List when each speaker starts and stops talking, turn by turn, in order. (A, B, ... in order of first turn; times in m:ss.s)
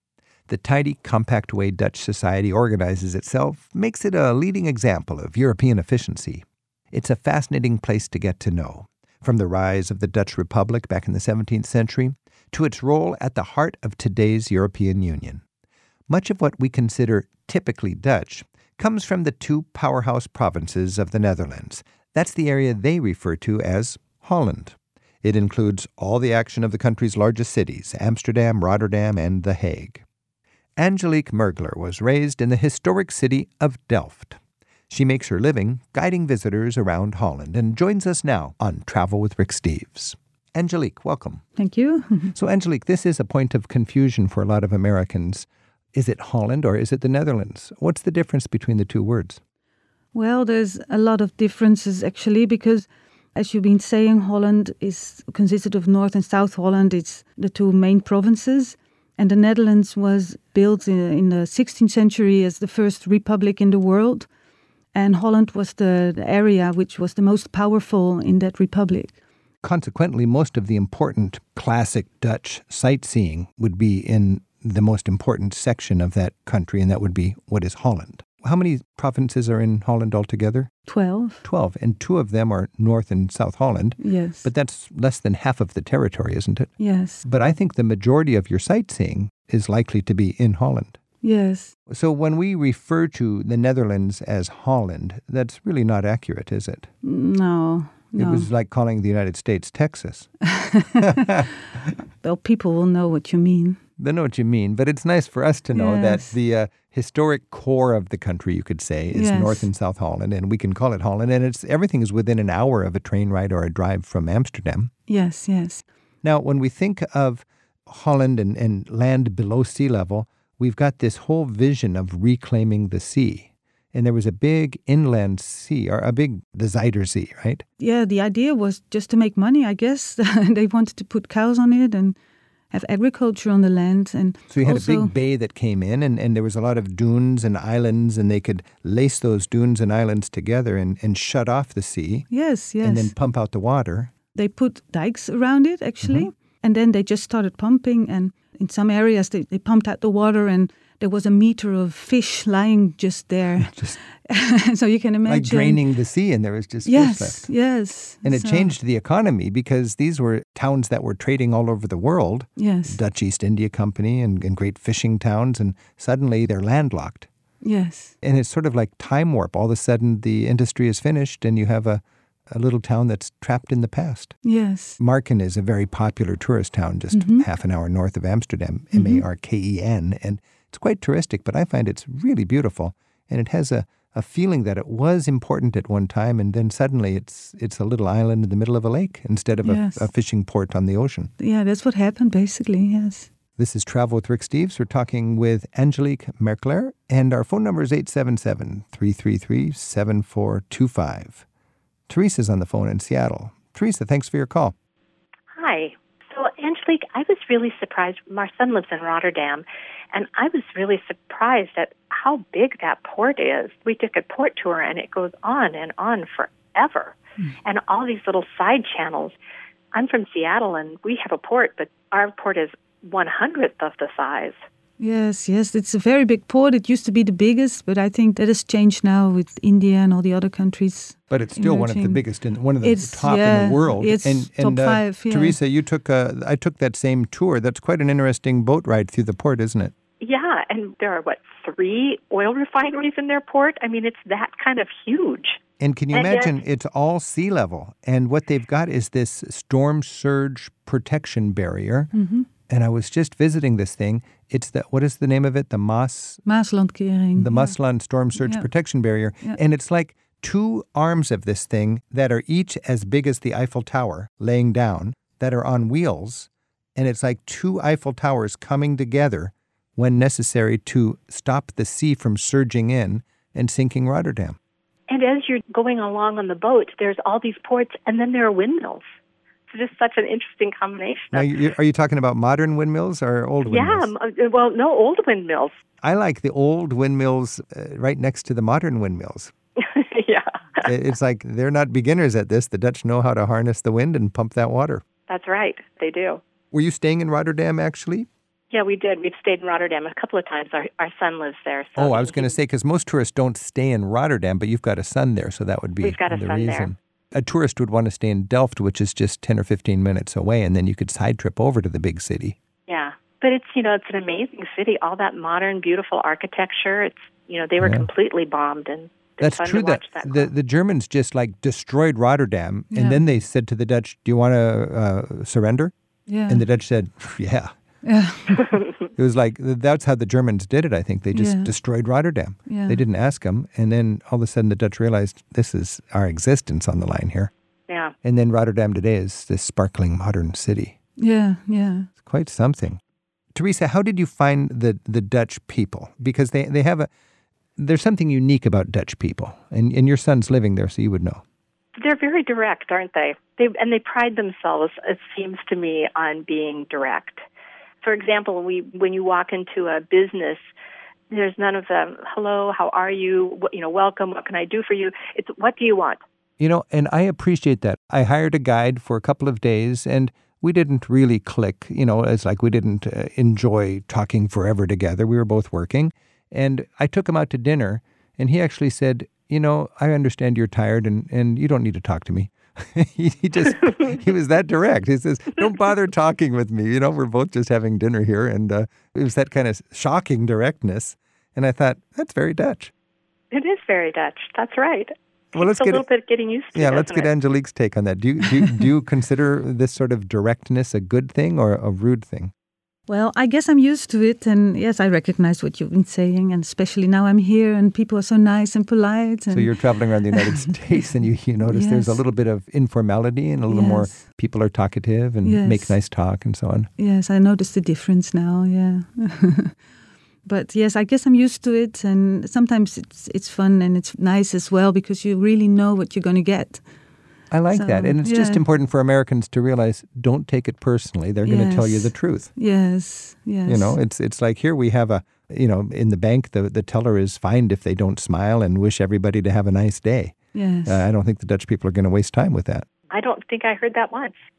0:00.5-0:15.4 A
0:16.1-0:30.0 A
0:30.8-0:34.4 A
0:34.9-0:41.4 A
0:41.6-0:42.3 B
0:42.3-0:49.4 A
0:50.1-1:04.3 B
1:04.9-1:09.2 B
1:09.6-1:20.7 A
1:20.9-1:21.4 B
1:21.4-1:26.7 A
1:24.0-1:24.5 B
1:26.8-1:27.2 B
1:27.2-1:31.0 A
1:31.2-1:31.7 B
1:31.9-1:36.9 A
1:37.0-1:38.5 B
1:38.2-1:40.3 A
1:40.5-1:41.4 B
1:41.0-1:41.3 A
1:42.2-1:43.8 B
1:44.0-1:54.9 A
1:45.7-1:46.3 B
1:49.1-1:49.7 B
1:55.1-1:55.8 B
1:56.2-2:07.6 A
2:07.8-2:12.2 B
2:12.7-2:15.1 B
2:14.5-2:22.3 A
2:22.3-2:23.1 B
2:22.8-2:24.1 A
2:24.3-2:35.9 B
2:33.6-2:34.0 A
2:35.2-2:37.5 A
2:36.8-2:38.7 B
2:38.2-2:47.3 A
2:42.6-2:43.0 B
2:47.6-2:48.1 B
2:48.2-2:54.3 A
2:54.4-2:55.0 B
2:55.0-3:11.3 A
2:57.1-2:57.4 B
2:58.9-2:59.2 B
3:09.6-3:10.1 B
3:11.4-3:13.3 B
3:13.6-3:21.4 A
3:22.1-3:24.7 A
3:25.5-3:37.1 C
3:37.6-3:39.4 C
3:39.9-3:44.6 C
3:45.0-3:52.2 B
3:51.3-3:59.9 A
3:52.8-3:55.6 B
4:00.2-4:05.6 C
4:05.8-4:12.1 A
4:06.1-4:06.5 C
4:12.1-4:12.5 B
4:12.7-4:16.4 A
4:16.4-4:17.7 B
4:17.4-4:34.6 A
4:18.4-4:18.7 B
4:35.1-4:39.0 C
4:39.7-4:41.5 C
4:41.3-4:44.1 A
4:43.6-4:45.8 C
4:46.0-4:49.5 A
4:49.9-4:50.8 C
4:50.8-4:55.0 A
4:55.3-4:56.4 C
4:56.7-4:58.3 A
4:58.7-5:02.5 C
5:02.0-5:12.5 A
5:06.0-5:06.9 C
5:12.9-5:20.5 C
5:17.8-5:18.1 A
5:19.4-5:25.9 A
5:22.9-5:23.2 B
5:26.3-5:26.6 B
5:26.5-5:27.7 A
5:28.0-5:28.7 B
5:29.2-5:37.5 A
5:31.3-5:31.7 B
5:32.7-5:33.0 B
5:38.2-5:40.9 A
5:41.2-5:42.1 B
5:42.2-5:43.0 A
5:43.5-5:47.1 A
5:47.8-5:51.4 A
5:52.0-5:57.4 C
5:58.0-6:00.6 C
6:01.3-6:06.2 C
6:06.6-6:32.9 A
6:33.5-6:37.3 C
6:35.5-6:36.1 A
6:36.7-6:42.5 A
6:43.1-6:49.8 B
6:49.5-6:56.9 A
6:50.3-6:50.7 B
6:51.7-6:52.2 B
6:53.7-6:54.1 B
6:55.4-6:56.0 B
6:57.0-6:59.7 B
7:00.4-7:06.8 B
7:07.5-7:12.5 A
7:07.7-7:08.6 B
7:11.4-7:14.0 B
7:13.6-7:22.8 A
7:20.5-7:21.0 B
7:23.1-7:24.3 C